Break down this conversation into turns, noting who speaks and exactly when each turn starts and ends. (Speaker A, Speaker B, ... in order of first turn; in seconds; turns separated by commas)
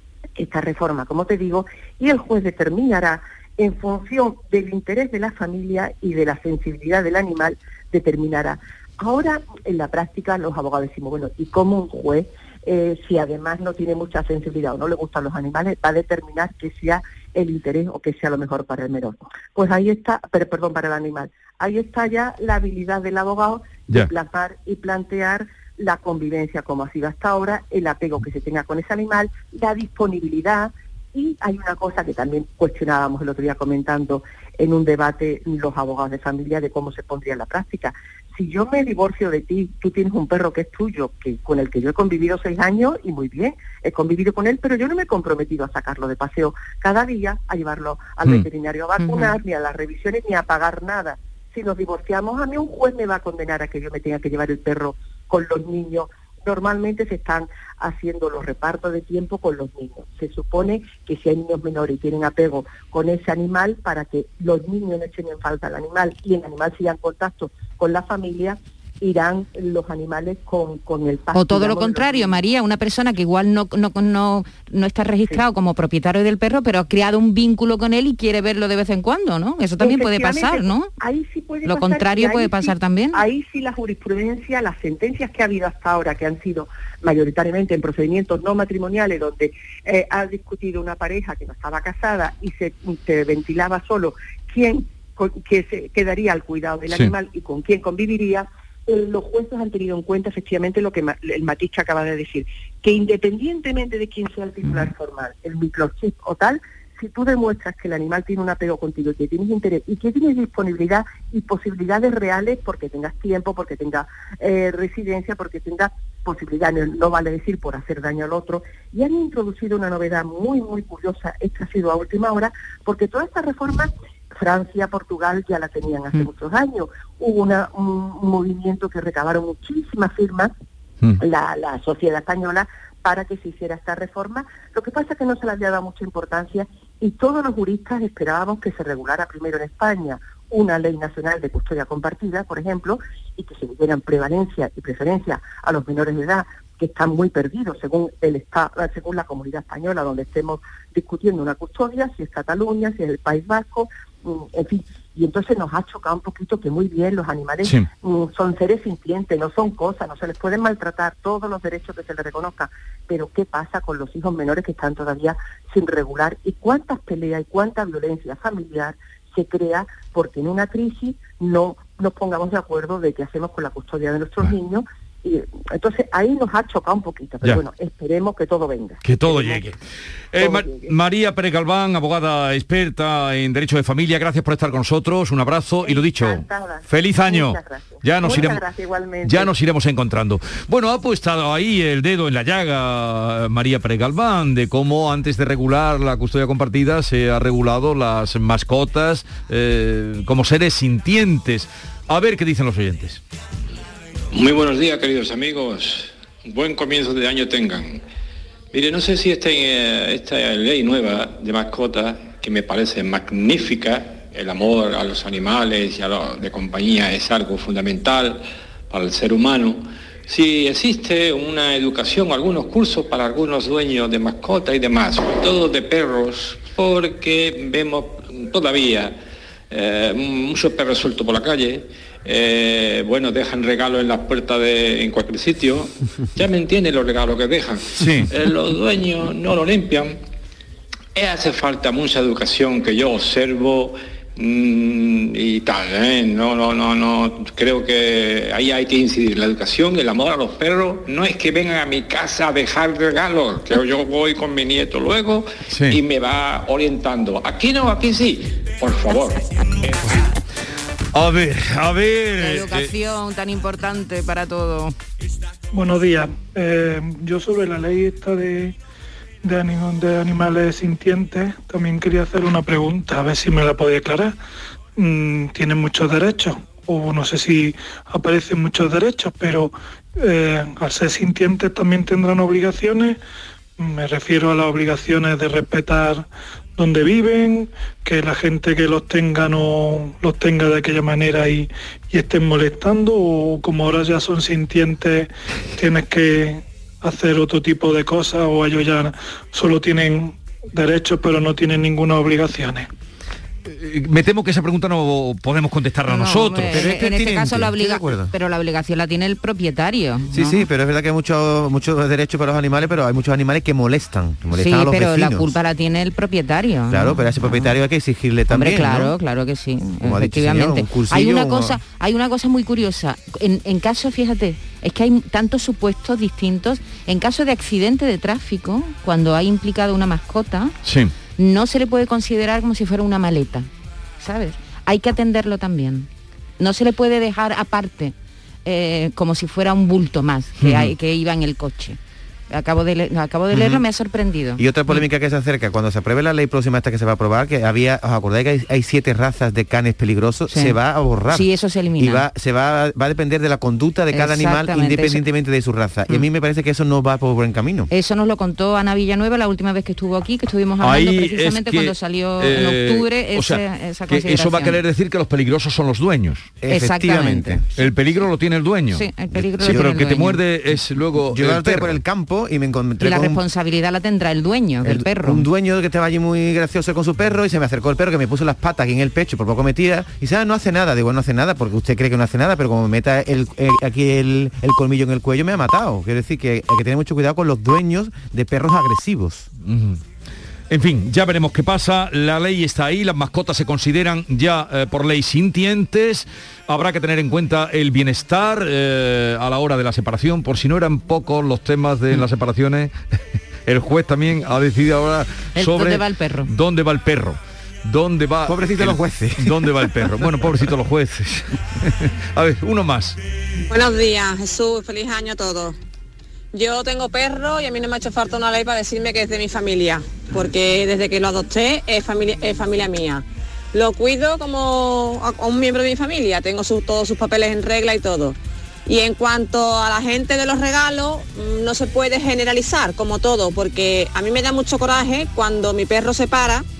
Speaker A: 0.4-72.4, Speaker B: 49.0-49.3, Speaker B: 71.3-80.9, Speaker A: 79.8-130.5, Speaker B: 81.6-83.2, Speaker A: 131.2-179.7, Speaker C: 179.0-179.8, Speaker C: 180.3-188.6, Speaker A: 180.4-180.9, Speaker A: 185.8-189.5, Speaker C: 189.2-203.2, Speaker D: 204.3-208.0, Speaker D: 208.7-229.2, Speaker D: 229.7-240.2, Speaker C: 238.0-238.3, Speaker D: 241.1-259.4, Speaker C: 255.7-256.0, Speaker C: 260.0-260.3, Speaker C: 261.1-262.9, Speaker B: 262.4-264.9, Speaker E: 265.7-268.8, Speaker E: 269.4-274.4, Speaker E: 275.0-283.2, Speaker E: 283.8-302.9, Speaker C: 303.7-306.9, Speaker B: 306.1-310.6, Speaker F: 306.6-308.3, Speaker F: 310.3-315.5, Speaker B: 314.5-317.7, Speaker F: 316.9-319.1, Speaker B: 318.5-330.7, Speaker F: 320.0-321.8, Speaker C: 330.8-331.1, Speaker B: 331.4-333.7, Speaker B: 334.2-336.1, Speaker B: 336.6-342.0, Speaker C: 340.6-340.9, Speaker B: 342.5-345.0, Speaker F: 343.5-343.8, Speaker F: 344.6-357.9, Speaker B: 350.5-350.8, Speaker B: 351.3-352.2, Speaker B: 354.1-355.2, Speaker B: 357.9-364.8, Speaker C: 360.8-366.5, Speaker F: 366.6-367.6, Speaker B: 366.7-367.6, Speaker C: 367.8-372.0, Speaker B: 368.9-370.4, Speaker F: 369.6-369.9, Speaker F: 371.2-373.4, Speaker B: 373.0-375.5, Speaker F: 374.8-389.5, Speaker C: 389.6-390.0, Speaker C: 390.7-402.9, Speaker C: 403.6-413.2, Speaker B: 405.6-406.5, Speaker F: 408.4-409.7, Speaker G: 413.7-415.7, Speaker G: 416.5-423.2, Speaker G: 423.7-428.4, Speaker G: 428.9-436.6